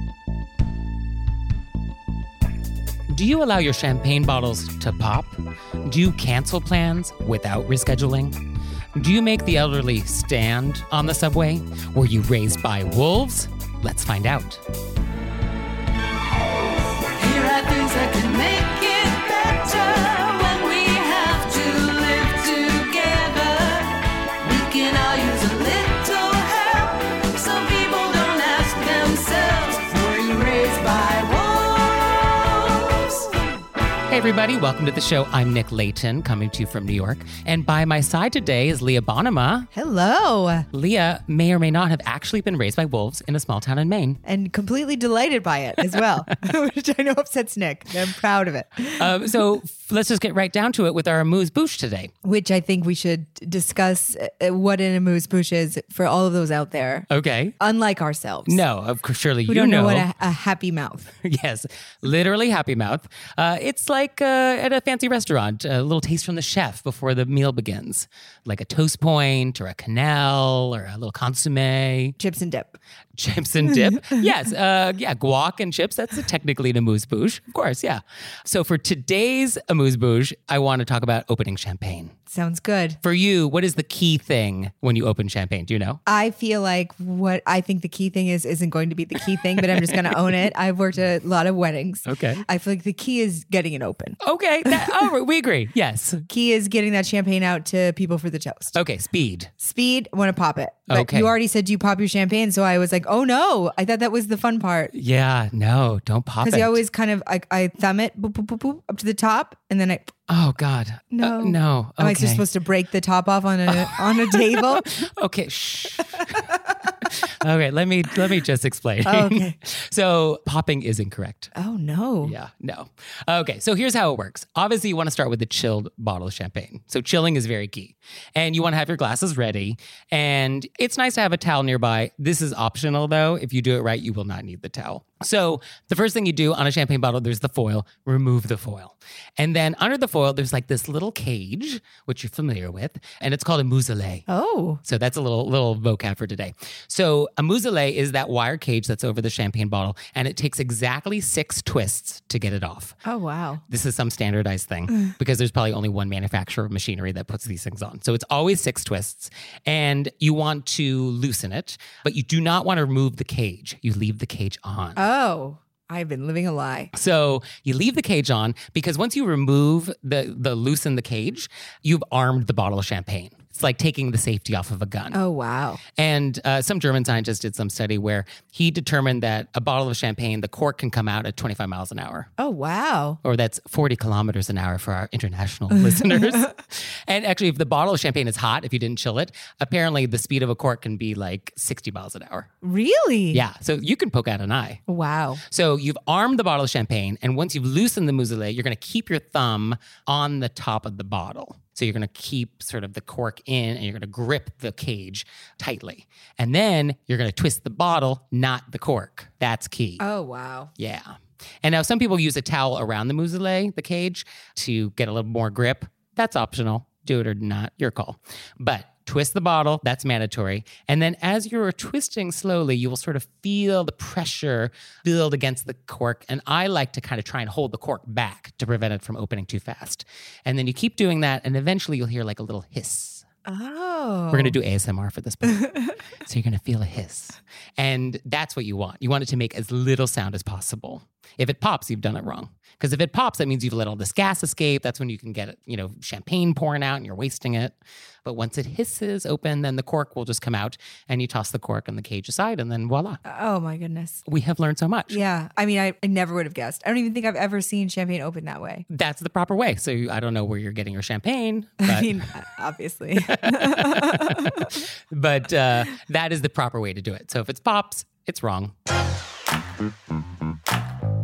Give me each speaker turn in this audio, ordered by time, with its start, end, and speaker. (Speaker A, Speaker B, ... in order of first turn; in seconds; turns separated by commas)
Speaker A: 3.1-8.4, Speaker A: 8.9-14.6, Speaker B: 17.1-33.3, Speaker A: 34.1-39.7, Speaker C: 39.7-40.7, Speaker A: 40.7-44.2, Speaker C: 44.2-49.1, Speaker A: 49.0-52.1, Speaker C: 52.2-58.6, Speaker A: 57.1-57.5, Speaker A: 58.5-60.1, Speaker C: 59.5-61.1, Speaker A: 61.2-72.1, Speaker C: 72.2-72.8, Speaker A: 73.2-82.1, Speaker C: 73.7-74.2, Speaker C: 82.3-83.0, Speaker A: 83.0-86.0, Speaker C: 86.0-95.1, Speaker A: 92.0-92.4, Speaker A: 94.2-96.2, Speaker C: 96.3-98.8, Speaker A: 98.7-99.5, Speaker C: 99.6-104.9, Speaker A: 100.9-101.3, Speaker A: 104.9-106.8, Speaker C: 106.4-110.1, Speaker A: 110.3-112.4, Speaker C: 111.1-114.9, Speaker A: 113.7-116.5, Speaker C: 116.2-116.9, Speaker A: 117.0-121.5, Speaker C: 119.0-119.5, Speaker C: 121.5-122.3, Speaker A: 122.2-144.2, Speaker C: 144.3-144.8, Speaker A: 144.8-152.9, Speaker C: 153.0-153.6, Speaker A: 153.7-165.0, Speaker C: 164.9-166.9, Speaker A: 166.9-175.2, Speaker C: 175.1-175.8, Speaker A: 175.9-182.3, Speaker C: 182.4-183.2, Speaker A: 183.2-192.5, Speaker C: 185.8-186.5, Speaker C: 192.6-193.4, Speaker A: 193.3-194.8, Speaker C: 194.9-195.4, Speaker A: 195.5-210.0, Speaker C: 210.0-210.7, Speaker A: 210.8-233.2, Speaker C: 233.4-234.6, Speaker A: 234.3-235.7, Speaker C: 235.5-235.9, Speaker A: 236.2-253.2, Speaker C: 253.2-254.2, Speaker A: 254.2-255.2, Speaker C: 255.1-258.9, Speaker A: 258.9-262.2, Speaker C: 261.8-264.7, Speaker A: 263.2-268.7